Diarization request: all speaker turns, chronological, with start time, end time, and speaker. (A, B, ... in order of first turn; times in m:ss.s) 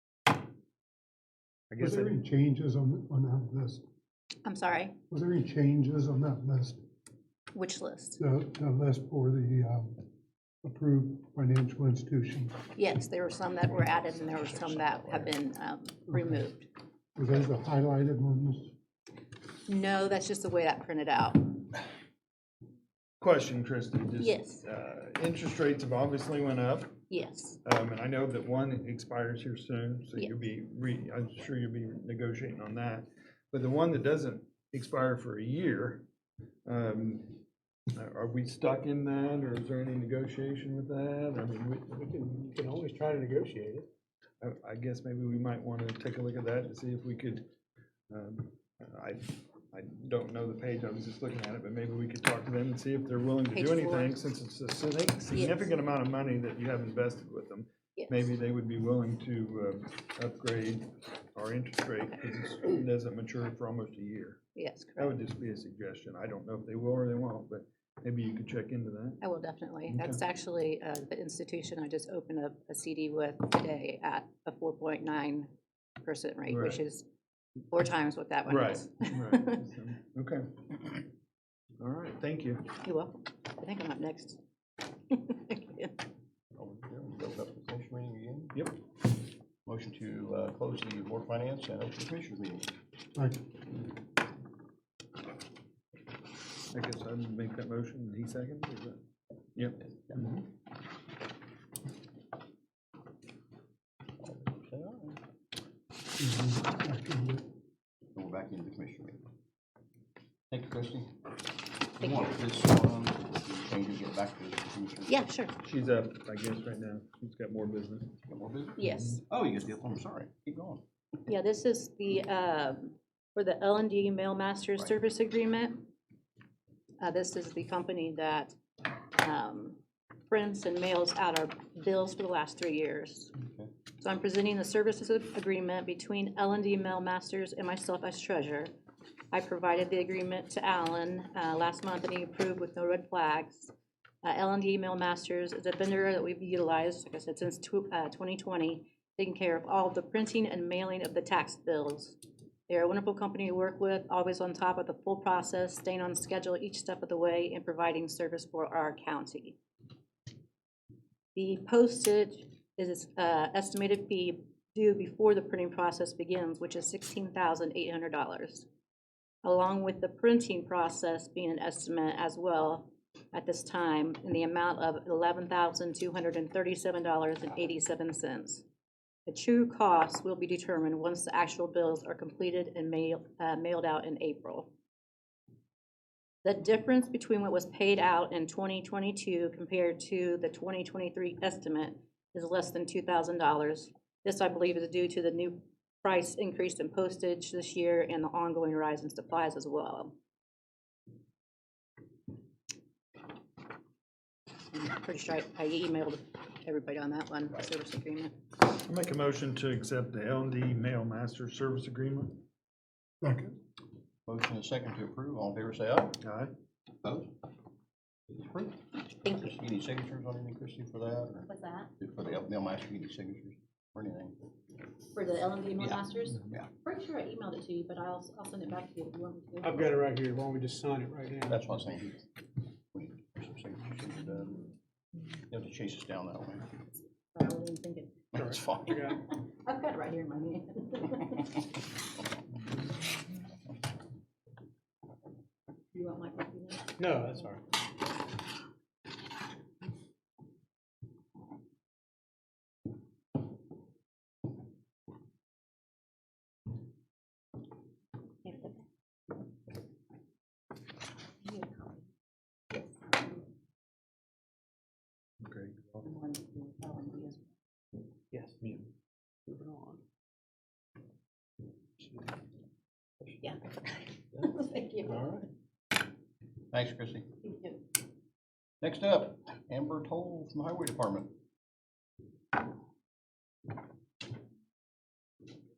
0:01.7-0:02.2 A
0:01.8-0:03.8 B
0:04.4-0:04.9 C
0:05.1-0:06.8 B
0:07.5-0:08.2 C
0:08.2-0:10.0 B
0:10.6-0:12.6 B
0:12.7-0:16.6 C
0:13.6-0:15.3 D
0:16.1-0:16.5 B
0:17.2-0:18.7 B
0:19.7-0:21.6 C
0:23.2-0:26.9 A
0:24.2-0:24.6 C
0:27.1-0:27.6 C
0:27.6-0:36.0 A
0:36.6-0:37.4 A
0:37.9-0:42.0 A
0:41.9-0:43.9 E
0:44.4-0:47.4 A
0:48.1-1:04.4 A
0:53.5-0:54.2 C
0:55.3-0:55.7 C
0:58.0-0:58.2 C
1:04.6-1:05.2 C
1:05.0-1:09.2 A
1:09.2-1:15.5 C
1:09.9-1:10.2 A
1:16.0-1:17.0 C
1:16.5-1:16.8 A
1:17.7-1:19.6 C
1:18.5-1:20.6 A
1:21.8-1:22.7 A
1:22.8-1:24.4 C
1:25.1-1:25.9 C
1:26.5-1:28.6 D
1:29.6-1:32.7 D
1:33.1-1:33.4 B
1:36.7-1:39.0 A
1:39.5-1:40.4 A
1:44.2-1:45.2 D
1:46.2-1:47.4 B
1:48.1-1:49.2 D
1:50.5-1:51.1 D
1:52.0-1:55.2 D
1:55.1-1:55.5 C
1:55.6-1:58.2 A
1:58.3-2:00.8 D
1:58.8-1:59.2 C
1:58.9-1:59.1 A
2:01.3-2:05.9 C
2:07.0-2:08.6 C
2:09.1-2:09.8 C
2:10.3-2:13.3 C
2:13.4-2:13.7 D
2:14.0-2:18.7 C
2:19.3-2:23.7 C
2:24.2-2:32.2 C
2:32.7-2:39.6 C
2:41.3-2:48.6 C
2:49.4-2:58.6 C
2:59.3-3:04.7 C
3:06.4-3:20.1 C
3:24.7-3:28.3 C
3:28.8-3:32.4 A
3:33.2-3:33.6 B
3:34.2-3:36.2 D
3:36.2-3:36.5 A
3:37.0-3:37.3 D
3:38.3-3:38.8 D
3:39.2-3:39.5 C
3:39.3-3:41.5 D
3:41.5-3:41.9 C
3:42.0-3:44.4 D
3:45.1-3:50.0 C
3:45.8-3:46.7 D
3:49.6-3:51.6 E
3:51.5-3:52.2 D
3:52.9-3:54.7 D
3:55.5-3:56.7 D
3:57.3-3:58.2 C
3:58.3-3:59.0 D
3:58.3-3:59.2 E
3:59.0-4:01.6 C
4:05.9-4:07.5 C
4:07.0-4:07.6 E
4:18.4-4:18.8 C
4:21.4-4:22.0 C
4:25.4-4:26.0 A
4:26.0-4:27.5 C
4:28.3-4:28.8 E
4:29.4-4:30.0 E
4:33.4-4:35.2 C
4:35.0-4:35.4 E
4:36.7-4:37.3 D
4:37.4-4:37.8 C
4:38.8-4:41.3 D